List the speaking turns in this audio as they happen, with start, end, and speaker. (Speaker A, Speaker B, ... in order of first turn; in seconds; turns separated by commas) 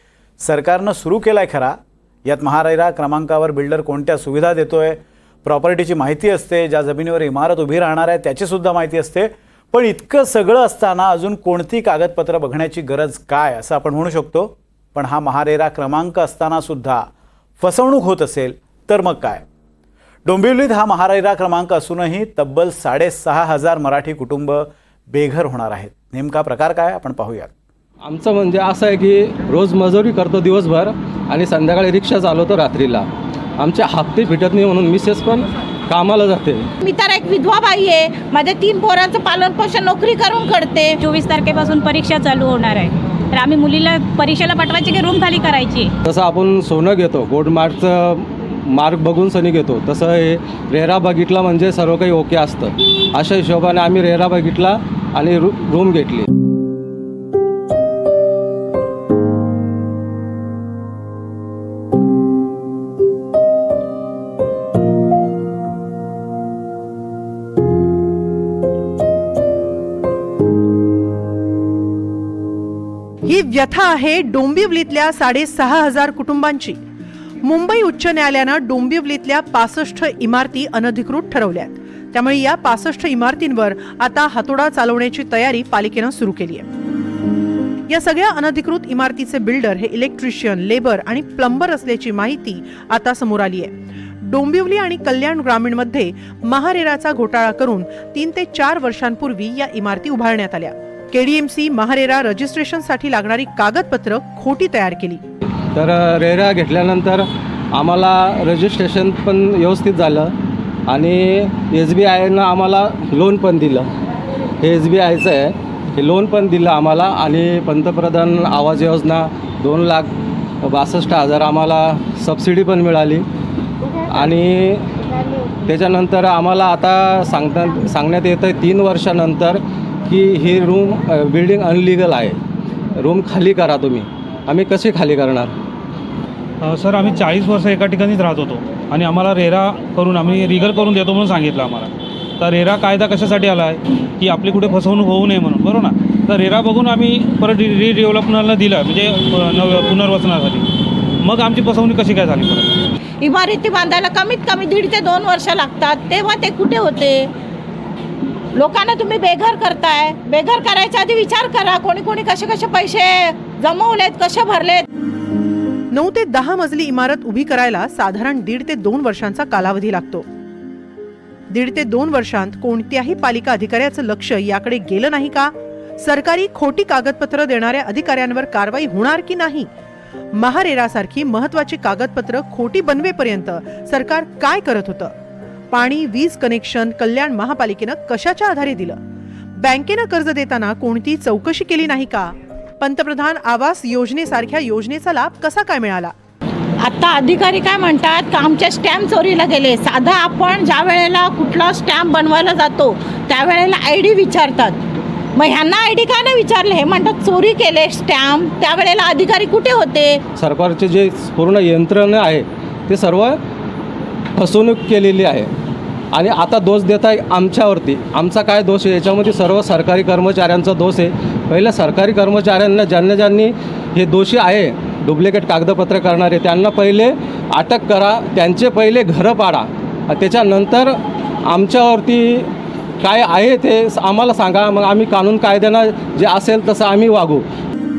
Speaker A: 0.4-17.0, Speaker A: 17.6-19.4, Speaker A: 20.2-27.5, Speaker B: 28.0-36.7, Speaker C: 36.8-41.0, Speaker D: 41.0-45.9, Speaker B: 46.0-56.3, Speaker E: 73.2-76.8, Speaker E: 77.4-86.7, Speaker E: 87.9-105.2, Speaker B: 105.7-110.3, Speaker B: 110.9-113.9, Speaker B: 114.6-120.1, Speaker B: 120.6-123.2, Speaker B: 124.1-124.9, Speaker B: 125.7-132.4, Speaker B: 133.0-135.5, Speaker F: 136.6-150.7, Speaker F: 151.2-152.8, Speaker C: 153.2-157.3, Speaker C: 158.5-164.8, Speaker E: 165.9-170.3, Speaker E: 171.5-179.7, Speaker E: 180.3-185.1, Speaker E: 185.7-189.0, Speaker E: 189.6-196.1, Speaker C: 196.8-204.8, Speaker C: 205.3-210.2, Speaker B: 210.3-213.4, Speaker B: 214.3-215.5, Speaker B: 216.1-230.9, Speaker B: 231.4-232.5, Speaker B: 233.0-237.4